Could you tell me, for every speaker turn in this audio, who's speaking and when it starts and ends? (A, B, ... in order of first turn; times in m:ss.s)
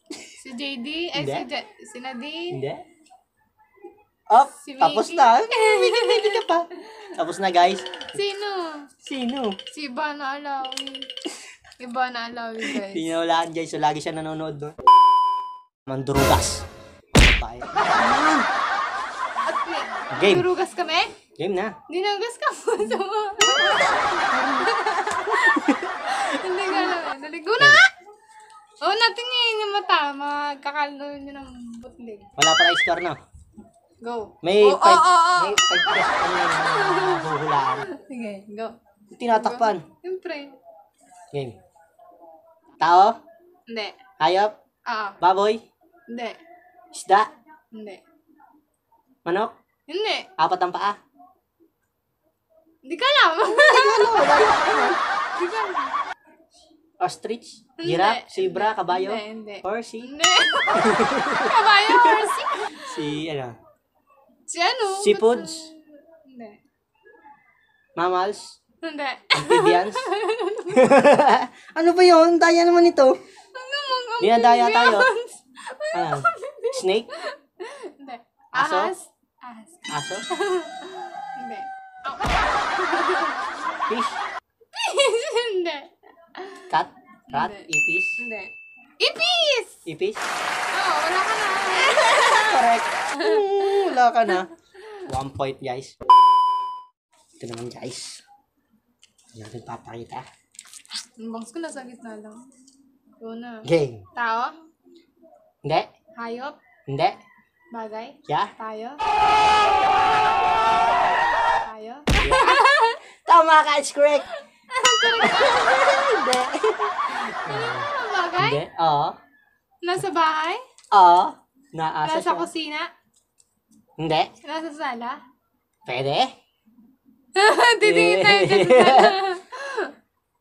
0:00.4-0:02.6 A
0:01.2-0:01.5 B
0:02.5-0:02.8 B
0:04.3-0:08.1 B
0:04.6-0:07.1 A
0:08.0-0:08.9 A
0:09.0-0:09.6 B
0:09.7-0:11.1 A
0:11.8-0:13.1 A
0:12.7-0:14.7 B
0:15.9-0:18.5 B
0:19.4-0:21.2 A
0:20.2-0:20.5 B
0:21.3-0:21.8 B
0:21.9-0:27.9 A
0:23.6-0:24.7 B
0:25.3-0:26.0 B
0:28.8-0:32.3 A
0:32.4-0:33.2 B
0:34.0-0:38.8 A
0:34.4-0:37.9 B
0:39.1-0:39.8 B
0:39.3-0:40.6 A
0:42.8-0:43.2 B
0:43.7-0:44.0 A
0:44.2-0:44.5 B
0:44.9-0:45.2 A
0:45.2-0:45.6 B
0:46.1-0:46.4 A
0:46.9-0:47.3 B
0:47.7-0:48.0 A
0:49.2-0:49.5 B
0:49.9-0:50.3 A
0:50.4-0:51.0 B
0:52.8-0:56.0 A
0:53.6-0:55.0 B
0:57.0-1:00.1 B
0:57.8-1:03.1 A
1:00.8-1:03.6 B
1:04.5-1:06.6 A
1:04.9-1:05.7 B
1:08.0-1:08.6 B
1:08.8-1:11.0 A
1:09.3-1:10.1 B
1:10.7-1:13.2 B
1:13.5-1:23.6 A
1:14.2-1:15.1 B
1:15.9-1:17.1 B
1:18.5-1:18.9 B
1:19.9-1:20.3 B
1:23.9-1:24.2 B
1:24.7-1:26.7 A
1:26.7-1:28.2 B
1:27.3-1:29.8 A
1:29.9-1:30.2 B
1:30.7-1:35.0 A
1:31.9-1:36.0 B
1:37.4-1:38.2 B
1:39.3-1:40.3 B
1:41.2-1:42.5 A
1:43.2-1:44.5 A
1:43.6-1:44.0 B
1:46.2-1:46.6 A
1:46.9-1:47.2 B
1:47.7-1:49.0 A
1:51.6-1:53.0 A
1:52.2-1:52.7 B
1:53.2-1:54.4 B
1:54.6-1:56.1 A
1:55.0-1:57.9 B
1:57.1-1:58.6 A
1:58.4-1:59.2 B
1:59.8-2:00.6 A
2:00.9-2:02.5 B
2:02.0-2:02.9 A
2:04.0-2:04.3 B
2:04.4-2:05.2 A
2:05.8-2:06.3 B
2:07.3-2:10.0 A
2:07.8-2:09.2 B